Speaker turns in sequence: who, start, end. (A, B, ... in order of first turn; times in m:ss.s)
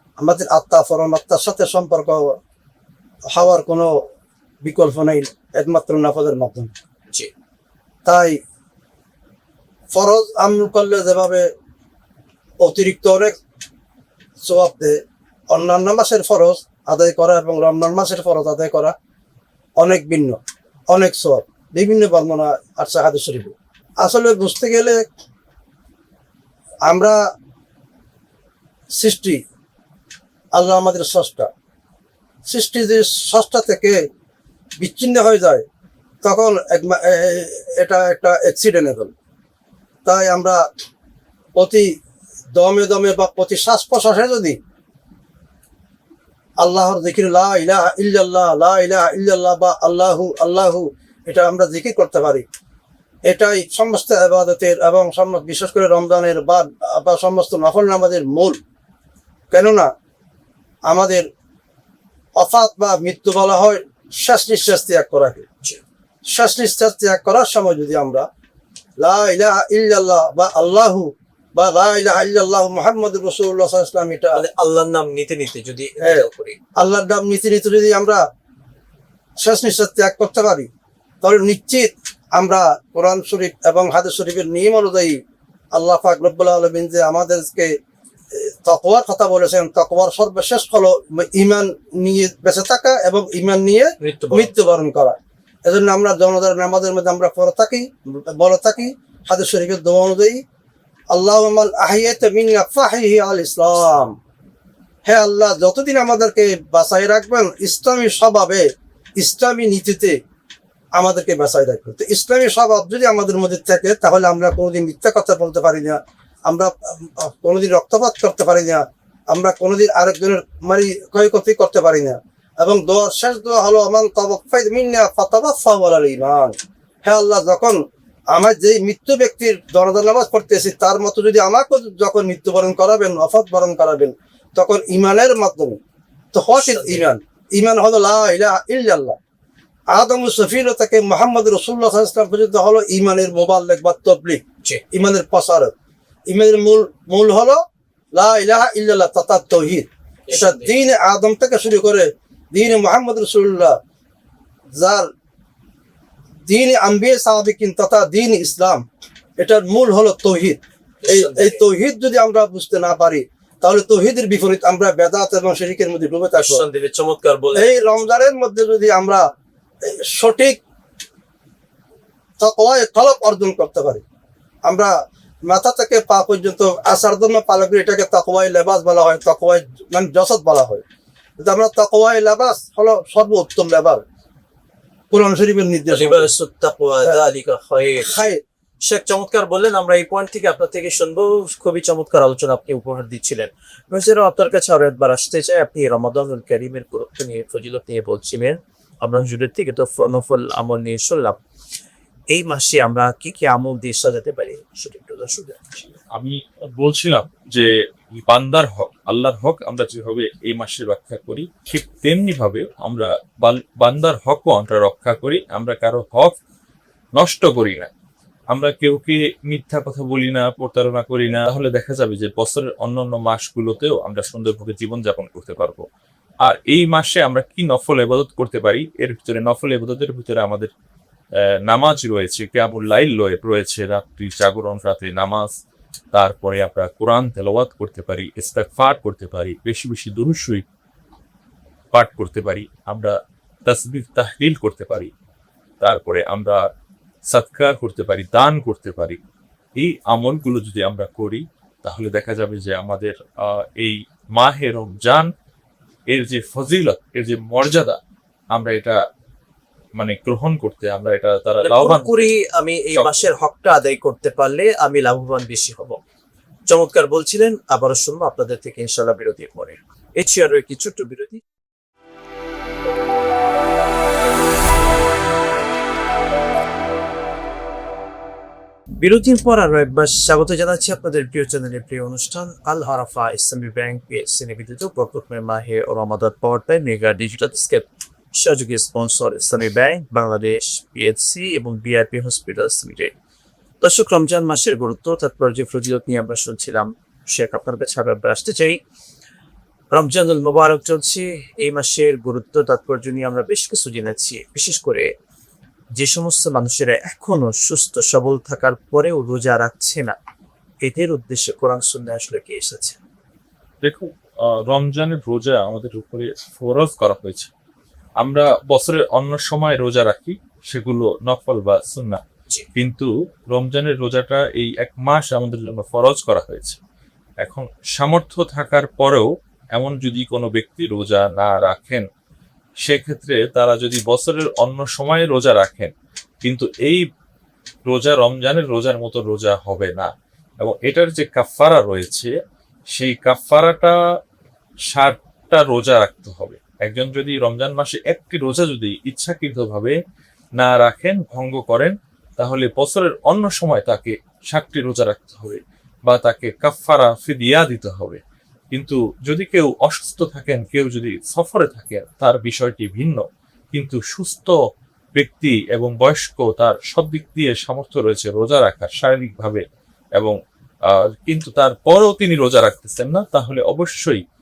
0:00.2-0:02.4 A
0:03.3-0:04.0 A
0:04.6-0:06.7 A
0:08.0-0:08.4 A
0:09.9-0:11.5 A
0:12.6-0:13.4 A
0:14.4-0:15.0 A
0:15.5-0:18.9 A
0:19.8-0:20.4 A
0:20.9-0:25.0 A
0:26.8-0:27.2 A
0:29.0-0:29.4 A
0:30.5-0:31.5 A
0:32.4-0:34.0 A
0:34.8-0:35.6 A
0:36.2-0:39.1 A
0:40.0-0:40.6 A
0:41.6-0:41.8 A
0:42.5-0:44.6 A
0:46.6-0:52.4 A
0:53.2-0:58.6 A
0:59.5-0:59.9 A
1:00.9-1:01.3 A
1:02.4-1:05.4 A
1:06.2-1:08.3 A
1:09.0-1:14.4 A
1:14.3-1:16.6 B
1:16.0-1:18.2 A
1:19.4-1:20.7 A
1:21.2-1:25.2 A
1:25.7-1:27.7 A
1:28.3-1:40.4 A
1:34.0-1:34.5 B
1:41.1-1:44.1 A
1:45.0-1:48.6 A
1:49.2-1:50.2 A
1:51.0-2:07.8 A
2:08.3-2:15.8 A
2:16.3-2:19.2 A
2:16.6-2:17.0 B
2:19.9-2:25.7 A
2:26.3-2:27.6 A
2:28.1-2:33.8 A
2:30.3-2:30.7 B
2:34.7-2:35.1 A
2:36.5-2:38.8 A
2:39.4-2:46.6 A
2:41.0-2:41.6 B
2:46.4-2:47.8 B
2:47.5-2:49.2 A
2:49.8-2:50.6 A
2:52.4-2:54.0 A
2:54.7-2:54.9 A
2:55.5-3:00.8 A
3:01.4-3:04.0 A
3:05.1-3:06.3 A
3:05.9-3:08.1 B
3:08.0-3:08.4 A
3:08.8-3:21.4 B
3:22.3-3:26.0 B
3:26.1-3:36.4 C
3:37.2-3:37.9 C
3:38.5-3:45.8 C
3:46.4-3:50.7 C
3:51.4-3:55.5 C
3:56.1-4:00.6 C
4:01.9-4:03.1 C
4:03.6-4:05.1 C
4:05.8-4:06.7 C
4:07.3-4:09.2 C
4:09.8-4:15.3 C
4:16.1-4:18.0 C
4:18.5-4:19.0 C
4:20.0-4:22.3 C
4:21.6-4:26.0 B
4:22.9-4:23.3 C
4:26.7-4:31.4 B
4:39.0-4:53.1 B
4:53.8-4:58.8 B
4:59.9-5:05.1 B
5:06.0-5:10.2 B
5:10.8-5:13.0 B
5:13.8-5:17.5 C
5:18.2-5:22.2 C
5:22.8-5:26.8 C
5:27.4-5:32.1 C
5:32.8-5:37.0 C
5:37.8-5:42.3 C
5:42.9-5:44.0 C
5:44.9-5:50.0 C
5:50.6-5:58.2 C
5:58.7-6:04.6 C
6:05.1-6:09.6 C
6:10.9-6:14.2 C